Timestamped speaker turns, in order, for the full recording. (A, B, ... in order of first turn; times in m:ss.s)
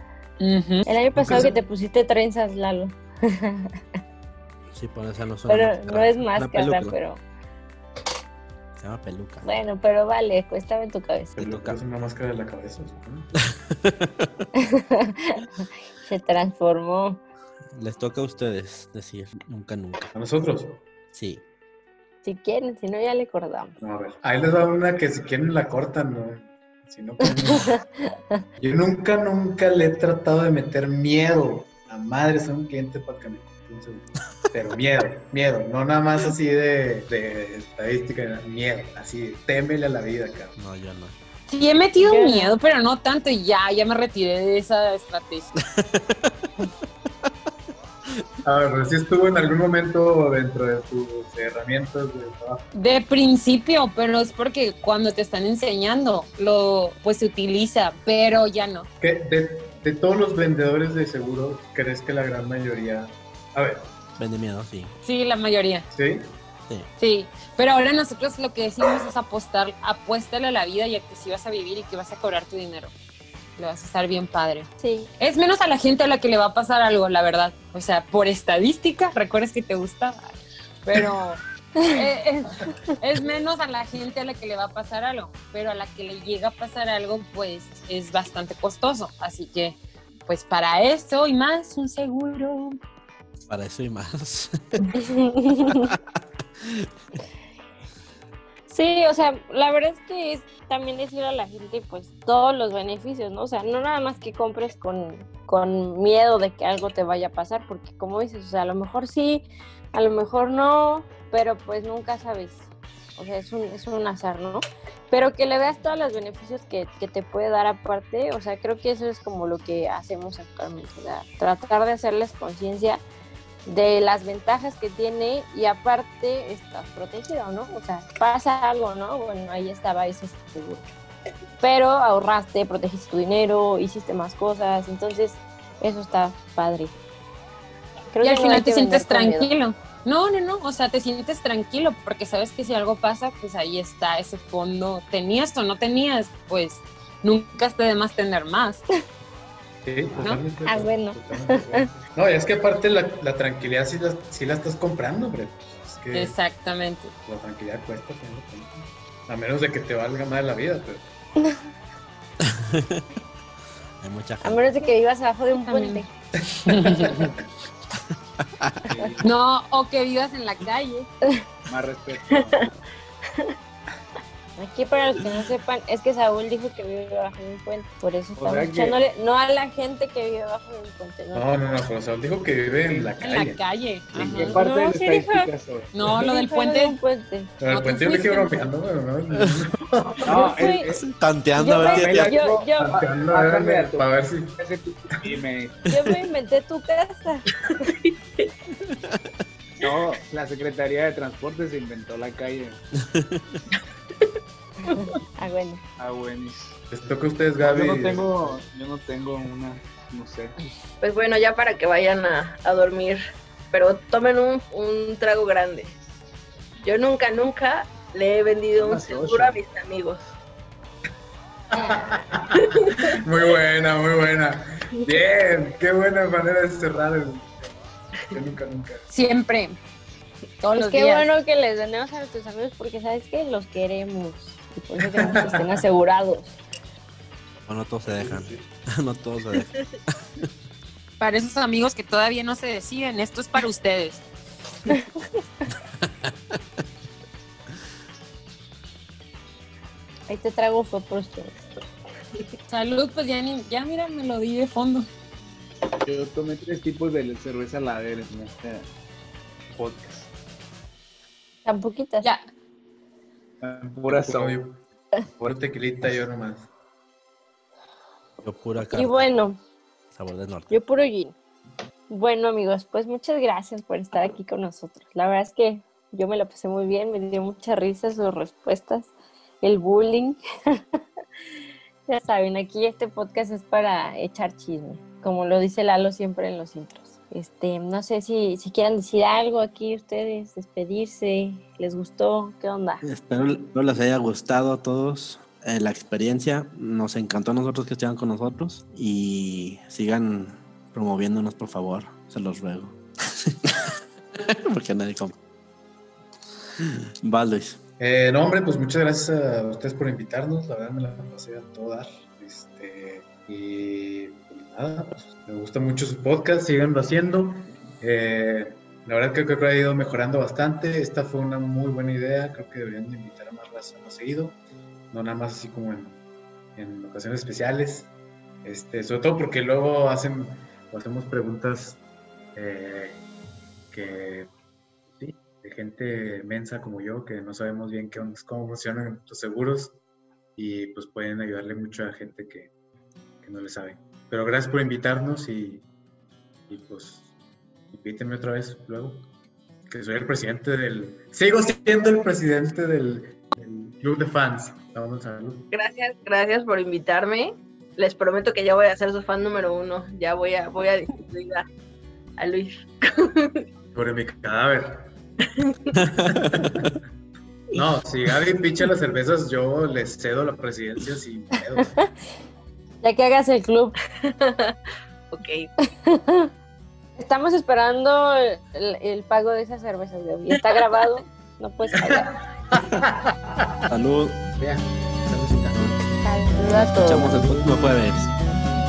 0:00.4-0:00.9 A
0:00.8-0:03.6 B
0:04.7-0:07.0 C
0:05.5-0:07.2 B
0:08.8-0:09.4 C
0:09.4-0:11.4 B
0:11.4-0:11.8 C
0:11.4-0:13.3 D
0:13.4-0:14.3 C
0:16.0-0:17.2 B
0:17.7-0:20.1 C
0:20.1-0:20.8 D
0:21.1-0:21.4 C
0:22.2-0:23.7 B
0:23.8-0:27.8 D
0:27.4-0:27.8 B
0:28.6-0:40.5 D
0:40.6-0:41.1 C
0:41.5-0:45.5 A
0:42.0-0:42.5 B
0:45.7-0:46.3 C
0:48.4-0:52.6 D
0:52.7-0:58.9 A
0:59.0-1:03.9 D
1:04.2-1:04.9 C
1:05.0-1:05.9 A
1:05.9-1:06.4 D
1:07.0-1:12.9 A
1:13.6-1:32.8 A
1:14.8-1:15.1 B
1:33.5-1:34.8 C
1:34.9-1:35.8 B
1:35.7-1:36.0 C
1:38.7-2:03.0 B
2:03.6-2:10.9 B
2:11.6-2:16.9 B
2:18.1-2:19.5 B
2:18.2-2:28.8 A
2:29.8-2:36.4 D
2:30.2-2:30.4 A
2:30.6-2:31.9 B
2:36.1-2:37.1 A
2:37.2-2:41.1 D
2:42.4-2:43.0 C
2:44.0-2:44.6 C
2:44.4-2:46.1 B
2:45.6-2:46.0 A
2:46.7-2:47.3 A
2:48.6-2:48.8 C
2:48.9-2:49.3 E
2:49.2-2:51.1 A
2:51.7-2:52.6 E
2:52.3-2:52.7 F
2:54.6-3:01.8 B
2:58.4-2:59.0 E
3:01.3-3:03.6 D
3:02.8-3:03.1 E
3:03.2-3:04.6 A
3:04.1-3:06.1 E
3:04.5-3:05.5 B
3:05.9-3:07.0 A
3:06.2-3:07.5 B
3:07.6-3:10.6 D
3:07.7-3:08.7 A
3:09.3-3:09.6 C
3:10.2-3:11.1 E
3:10.3-3:10.9 B
3:10.9-3:12.3 C
3:11.6-3:12.9 B
3:11.8-3:15.8 E
3:12.8-3:14.6 D
3:15.9-3:16.2 C
3:15.9-3:17.6 B
3:18.0-3:18.5 F
3:18.8-3:19.2 C
3:19.8-3:22.8 E
3:22.9-3:23.6 C
3:24.9-3:25.8 B
3:26.0-3:26.7 E
3:26.9-3:28.5 D
3:27.6-3:30.6 E
3:31.0-3:33.2 F
3:33.7-3:35.9 F
3:36.8-3:40.3 F
3:38.8-3:39.5 E
3:38.8-3:39.4 D
3:41.7-3:42.4 D
3:43.2-3:47.8 D
3:48.3-3:49.0 D
3:49.1-3:49.8 A
3:50.6-3:51.3 A
3:50.7-3:56.6 B
3:55.2-3:55.8 D
3:57.7-3:59.7 C
3:58.1-3:58.7 D
4:01.2-4:04.2 A
4:06.0-4:06.6 C
4:10.3-4:11.7 B
4:12.7-4:15.1 A
4:16.0-4:18.9 E
4:19.8-4:20.3 E
4:21.6-4:22.3 B
4:23.6-4:24.6 E
4:24.1-4:24.8 D
4:25.4-4:26.7 D
4:28.4-4:29.3 C
4:28.9-4:29.6 B
4:30.1-4:30.7 C
4:30.7-4:31.4 B
4:32.1-4:40.4 B
4:42.1-4:53.0 B
4:53.0-5:03.8 C
5:04.4-5:05.3 C
5:06.8-5:07.8 C
5:08.0-5:24.6 D
5:25.1-5:26.2 D
5:26.8-5:28.1 D
5:28.6-5:32.0 D
5:32.6-5:33.2 D
5:33.9-5:34.5 D
5:35.2-5:40.0 D
5:40.6-5:42.7 D
5:43.4-5:45.8 D
5:46.7-5:47.3 D
5:47.9-5:49.2 D
5:49.9-5:55.7 D
5:55.7-6:01.6 F
6:02.4-6:03.6 F
6:03.9-6:05.1 D
6:05.6-6:06.0 F
6:06.0-6:06.9 C
6:06.4-6:06.9 D
6:07.7-6:11.9 D
6:13.0-6:14.0 B
6:14.2-6:14.7 F
6:15.3-6:15.7 F
6:16.0-6:16.5 B
6:17.2-6:22.3 B
6:22.0-6:23.8 D
6:23.9-6:24.4 C
6:24.5-6:25.9 D
6:26.2-6:27.5 B
6:26.7-6:28.3 C